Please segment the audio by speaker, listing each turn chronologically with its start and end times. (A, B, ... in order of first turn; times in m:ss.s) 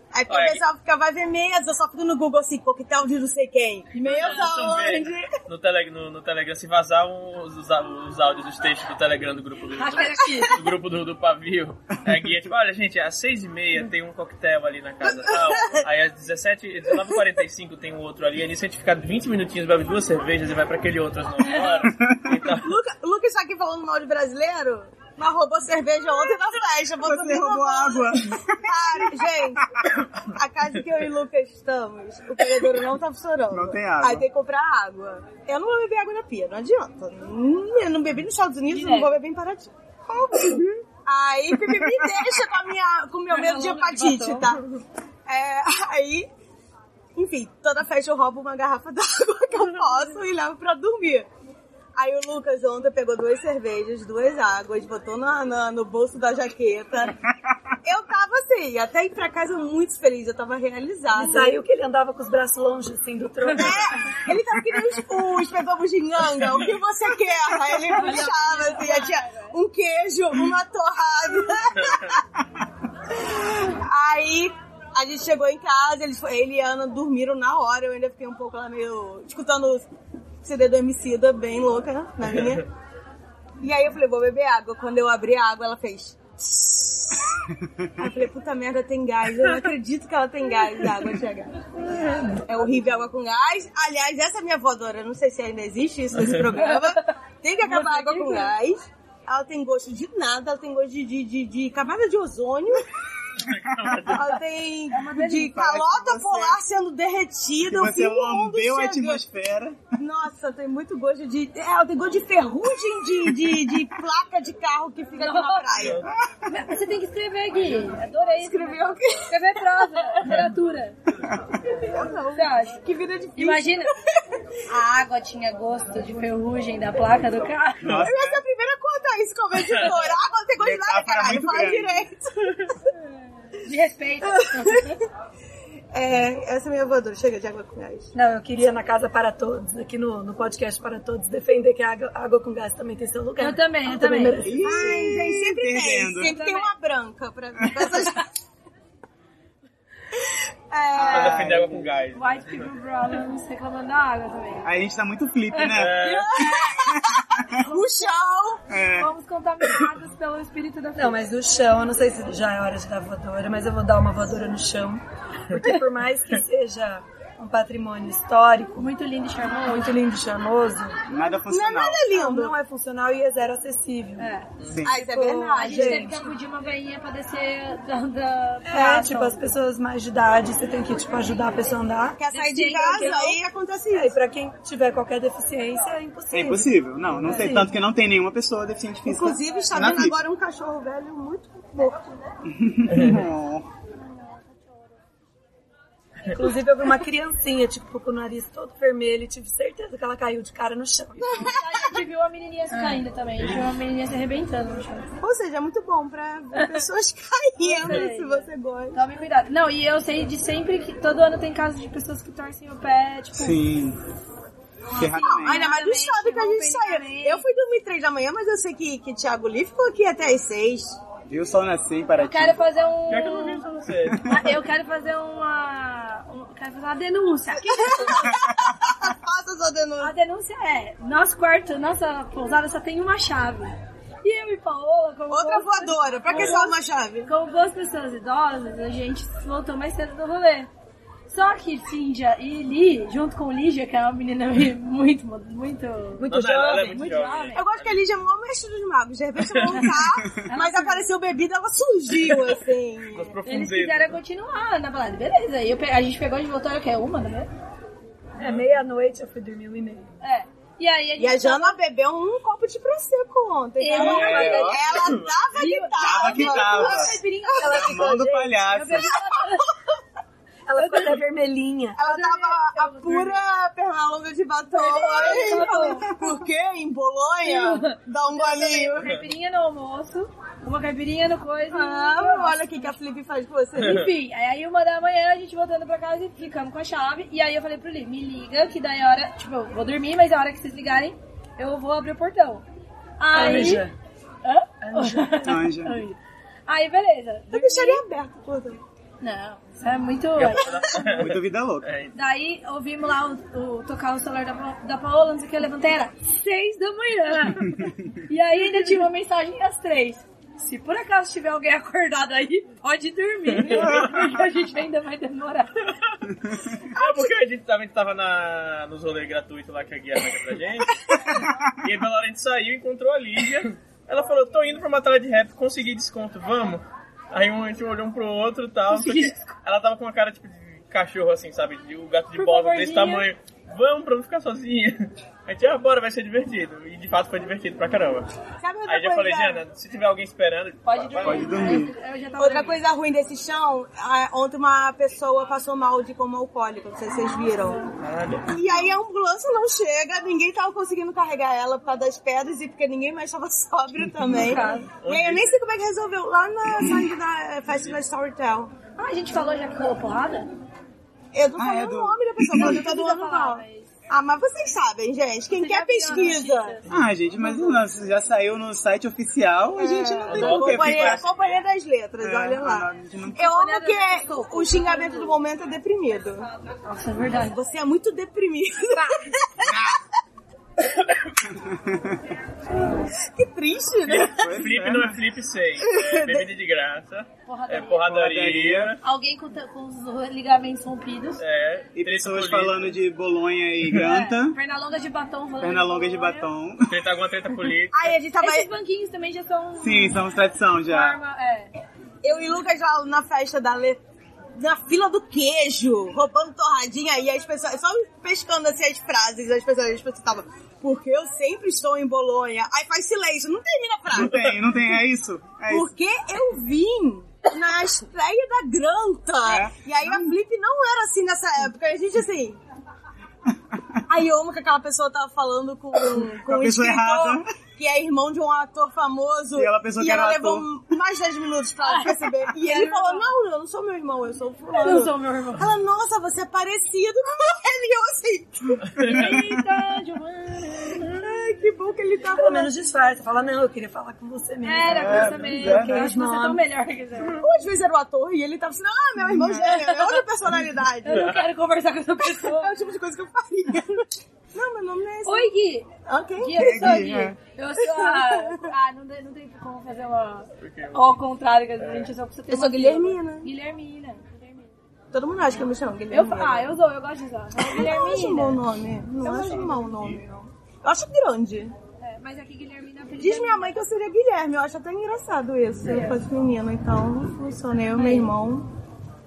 0:00.1-0:05.3 A
0:00.3-0:00.6 B
0:04.0-0:22.7 B
0:04.1-0:04.4 C
0:09.8-0:10.6 C
0:15.0-0:15.8 A
0:21.8-0:22.5 D
0:22.6-0:44.6 A
0:27.0-0:29.8 D
0:33.5-0:34.3 D
0:38.7-0:39.2 C
0:40.4-0:40.7 D
0:41.6-0:42.3 D
0:43.3-0:44.5 C
0:45.3-0:46.3 A
0:47.2-0:51.3 A
0:52.0-0:57.2 A
0:57.8-1:01.6 A
1:01.1-1:04.1 E
1:03.6-1:12.2 A
1:07.9-1:09.6 C
1:13.1-1:19.9 A
1:20.4-1:22.7 A
1:23.6-1:27.2 A
1:28.0-1:31.5 A
1:32.4-1:42.9 A
1:36.2-1:36.4 B
1:36.6-1:37.0 C
1:37.7-1:38.5 C
1:43.4-1:44.3 B
1:44.1-1:49.2 A
1:44.9-1:45.7 C
1:45.5-1:46.6 D
1:47.6-1:50.0 D
1:50.0-1:56.1 A
1:53.3-1:53.8 D
1:55.2-1:55.7 C
1:55.8-1:56.0 B
1:56.0-1:56.5 D
1:56.5-2:01.2 C
1:58.4-1:59.6 A
2:01.7-2:04.2 A
2:02.3-2:02.8 C
2:03.4-2:03.9 C
2:04.7-2:08.0 C
2:07.8-2:08.4 D
2:08.0-2:12.8 A
2:09.6-2:10.0 B
2:10.6-2:12.1 D
2:12.9-2:15.0 C
2:14.3-2:14.9 A
2:15.9-2:18.1 A
2:18.1-2:24.7 E
2:23.4-2:24.9 C
2:24.4-2:26.4 D
2:24.6-2:28.3 A
2:26.3-2:26.7 C
2:30.2-2:31.5 A
2:30.9-2:31.9 D
2:31.1-2:32.7 B
2:32.2-2:34.7 C
2:34.6-2:37.6 D
2:35.5-2:36.9 C
2:35.7-2:36.4 B
2:36.0-2:38.6 A
2:37.5-2:38.1 C
2:38.7-2:39.1 D
2:39.0-2:41.2 C
2:41.0-2:48.9 E
2:48.8-2:50.0 C
2:49.7-2:51.0 E
2:51.1-2:52.0 D
2:51.5-2:52.6 A
2:52.0-2:54.3 E
2:54.2-2:54.5 C
2:54.7-2:55.0 D
2:54.8-2:56.1 A
2:55.0-2:56.3 E
2:55.5-2:59.4 C
2:58.7-3:02.2 E
3:02.2-3:04.2 A
3:02.3-3:03.4 C
3:02.8-3:03.3 E
3:03.9-3:06.7 E
3:06.3-3:10.2 D
3:07.2-3:07.8 E
3:09.1-3:12.2 A
3:09.5-3:09.8 C
3:12.4-3:13.7 D
3:12.9-3:13.2 B
3:14.0-3:14.9 C
3:16.2-3:21.5 E
3:21.2-3:22.0 A
3:21.3-3:25.1 C
3:22.7-3:23.0 E
3:25.2-3:29.0 A
3:26.6-3:26.8 C
3:27.6-3:33.6 C
3:33.4-3:34.0 D
3:34.9-3:37.4 C
3:35.0-3:35.7 D
3:35.0-3:41.0 A
3:41.3-3:42.6 D
3:42.2-3:43.6 C
3:43.1-3:44.4 B
3:44.1-3:44.4 D
3:44.2-3:48.3 C
3:47.6-3:50.1 A
3:48.4-3:49.0 D
3:50.0-3:56.8 C
3:55.3-3:57.3 A
3:57.3-4:00.7 C
4:01.3-4:07.6 C
4:06.2-4:07.0 E
4:06.3-4:08.0 B
4:07.5-4:13.3 A
4:09.5-4:09.8 B
4:09.7-4:11.1 C
4:13.1-4:14.2 B
4:13.4-4:17.5 C
4:18.4-4:20.1 E
4:20.2-4:21.8 C
4:21.2-4:27.6 A
4:23.8-4:29.7 C
4:23.9-4:24.8 D
4:23.9-4:25.4 B
4:26.0-4:29.2 D
4:27.6-4:28.5 E
4:30.7-4:32.0 E
4:30.8-4:31.2 C
4:32.0-4:39.1 A
4:32.0-4:33.4 C
4:34.7-4:36.2 C
4:35.2-4:35.5 B
4:37.4-4:43.0 C
4:41.7-4:44.1 A
4:43.8-4:52.6 C
4:53.2-4:53.9 C
4:53.3-4:53.9 E
4:54.4-4:58.0 C
4:54.8-4:55.5 E
4:55.4-4:56.0 D
4:57.5-4:58.8 A
4:59.2-5:01.1 C
5:00.4-5:02.2 B
5:01.1-5:01.9 D
5:02.1-5:15.9 C
5:13.5-5:14.4 B
5:16.8-5:38.3 B
5:28.9-5:29.6 C
5:32.4-5:33.3 C
5:38.6-5:39.6 A
5:38.9-5:41.6 B
5:40.8-5:42.8 C
5:41.2-5:41.9 D
5:42.4-5:47.9 A
5:48.0-5:49.0 B
5:48.5-5:58.7 A
5:54.1-5:54.5 D
5:54.5-5:54.9 C
5:54.5-5:54.9 E
5:55.0-5:55.5 B
5:59.0-6:00.5 C
6:01.3-6:06.8 A
6:01.6-6:02.8 D
6:02.5-6:03.9 C
6:05.5-6:06.8 C
6:06.9-6:11.2 D
6:09.8-6:16.5 A
6:10.3-6:11.6 B
6:12.2-6:13.5 D
6:13.4-6:15.4 C
6:16.8-6:17.6 C
6:17.3-6:19.9 A
6:19.0-6:19.3 C
6:19.6-6:20.0 D
6:21.5-6:22.2 D
6:22.9-6:24.4 A
6:24.1-6:29.0 B
6:24.2-6:25.2 D
6:25.9-6:26.5 A
6:27.5-6:28.1 C
6:28.0-6:29.0 D
6:29.0-6:31.4 C
6:31.4-6:33.0 B
6:32.0-6:34.6 D
6:34.0-6:36.5 C
6:35.6-6:37.0 D
6:36.9-6:38.2 B
6:37.9-6:38.7 A
6:38.4-6:40.2 C
6:39.8-6:41.2 D
6:40.9-6:41.7 C
6:42.2-6:44.0 A
6:44.6-6:54.4 A
6:54.1-6:55.9 D
6:55.7-7:02.6 A
6:59.4-7:00.4 D
7:03.7-7:04.0 D
7:04.1-7:19.1 A
7:06.2-7:07.5 D
7:09.6-7:10.7 D
7:11.8-7:13.3 C
7:14.8-7:15.7 C
7:19.0-7:19.3 B
7:19.0-7:21.1 C
7:21.1-7:22.7 A
7:22.3-7:26.6 E
7:24.6-7:27.4 C
7:24.9-7:26.1 D
7:27.4-7:31.4 A
7:29.2-7:29.8 D
7:29.6-7:30.2 C
7:31.0-7:32.9 C
7:31.1-7:31.4 B
7:32.2-7:35.5 A
7:35.3-7:44.7 C
7:36.1-7:37.1 A
7:36.6-7:37.4 D
7:37.8-7:38.7 A
7:40.6-7:41.1 B
7:41.8-7:42.1 B
7:42.5-7:43.5 A
7:45.1-7:46.7 A
7:46.1-7:48.6 C
7:47.6-7:51.7 A
7:49.2-7:49.8 C
7:49.5-7:50.2 B
7:52.0-7:53.8 C
7:53.2-7:58.7 A
7:55.9-7:56.2 C
7:58.0-7:58.3 C